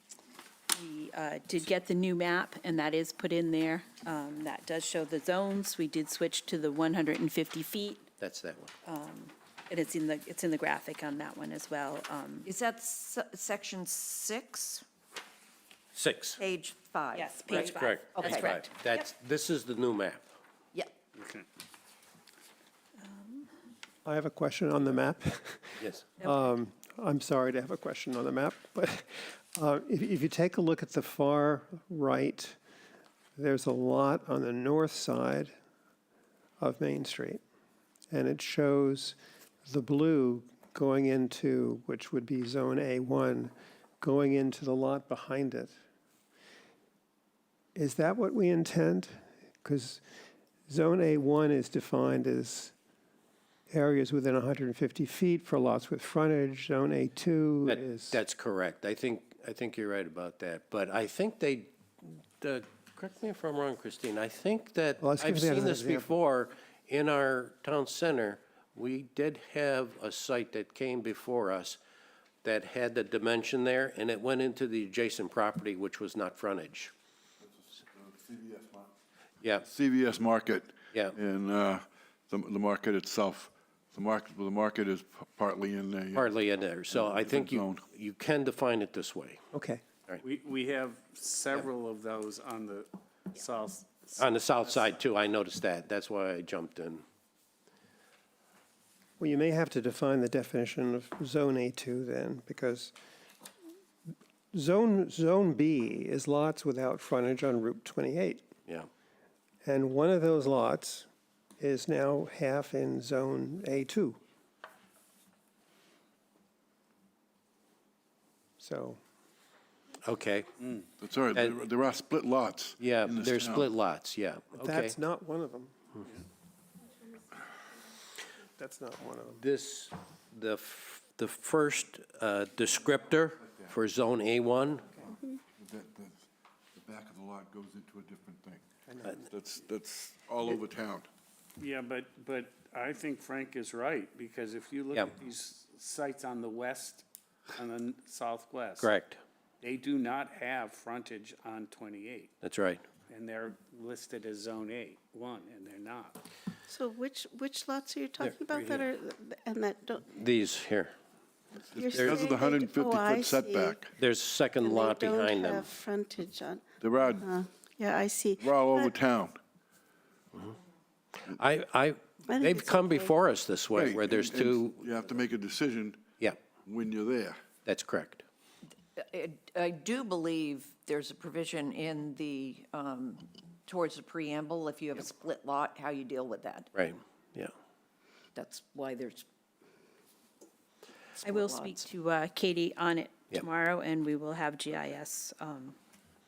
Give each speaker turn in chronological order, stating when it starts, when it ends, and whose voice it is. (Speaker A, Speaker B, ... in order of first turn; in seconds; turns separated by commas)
Speaker A: 0.7-8.1, Speaker B: 8.2-8.7, Speaker A: 8.8-12.5, Speaker C: 12.4-14.8, Speaker B: 15.9-16.4, Speaker C: 16.4-18.5, Speaker A: 17.1-18.7, Speaker B: 17.6-20.3, Speaker D: 21.1-21.5, Speaker A: 23.1-23.4, Speaker E: 24.1-32.6, Speaker B: 25.8-26.1, Speaker E: 33.4-35.5, Speaker E: 36.6-37.4, Speaker E: 38.1-45.8, Speaker E: 47.8-50.0, Speaker E: 50.7-52.7, Speaker E: 53.7-58.2, Speaker B: 57.7-71.8, Speaker E: 65.0-66.1, Speaker B: 72.4-76.9, Speaker F: 77.7-78.9, Speaker F: 79.5-86.3, Speaker B: 86.1-89.4, Speaker F: 86.9-87.9, Speaker E: 89.5-89.8, Speaker D: 90.2-94.9, Speaker B: 94.2-97.0, Speaker E: 99.2-102.9, Speaker E: 104.5-108.5, Speaker E: 109.6-111.1, Speaker E: 111.6-114.2, Speaker E: 118.6-119.0, Speaker B: 120.0-120.5, Speaker F: 121.0-123.7, Speaker B: 122.8-125.0, Speaker E: 124.5-125.7, Speaker E: 128.6-129.4, Speaker B: 129.4-135.1, Speaker F: 135.6-136.2, Speaker F: 136.8-138.6, Speaker E: 138.9-139.2, Speaker F: 139.2-141.1, Speaker D: 141.6-147.1, Speaker D: 147.6-148.9, Speaker B: 148.8-149.2, Speaker D: 149.6-152.3, Speaker B: 152.4-152.8, Speaker D: 153.1-156.2, Speaker G: 156.7-160.1, Speaker B: 160.1-160.9, Speaker G: 161.8-163.8, Speaker F: 161.8-163.9, Speaker B: 164.0-165.7, Speaker G: 164.6-168.9, Speaker F: 166.8-167.3, Speaker F: 168.4-169.4, Speaker B: 171.3-174.8, Speaker G: 172.3-173.1, Speaker F: 173.8-176.0, Speaker F: 176.7-177.4, Speaker B: 177.7-178.2, Speaker C: 179.0-186.7, Speaker B: 186.7-187.5, Speaker C: 188.3-189.2, Speaker C: 191.2-191.8, Speaker A: 191.2-195.8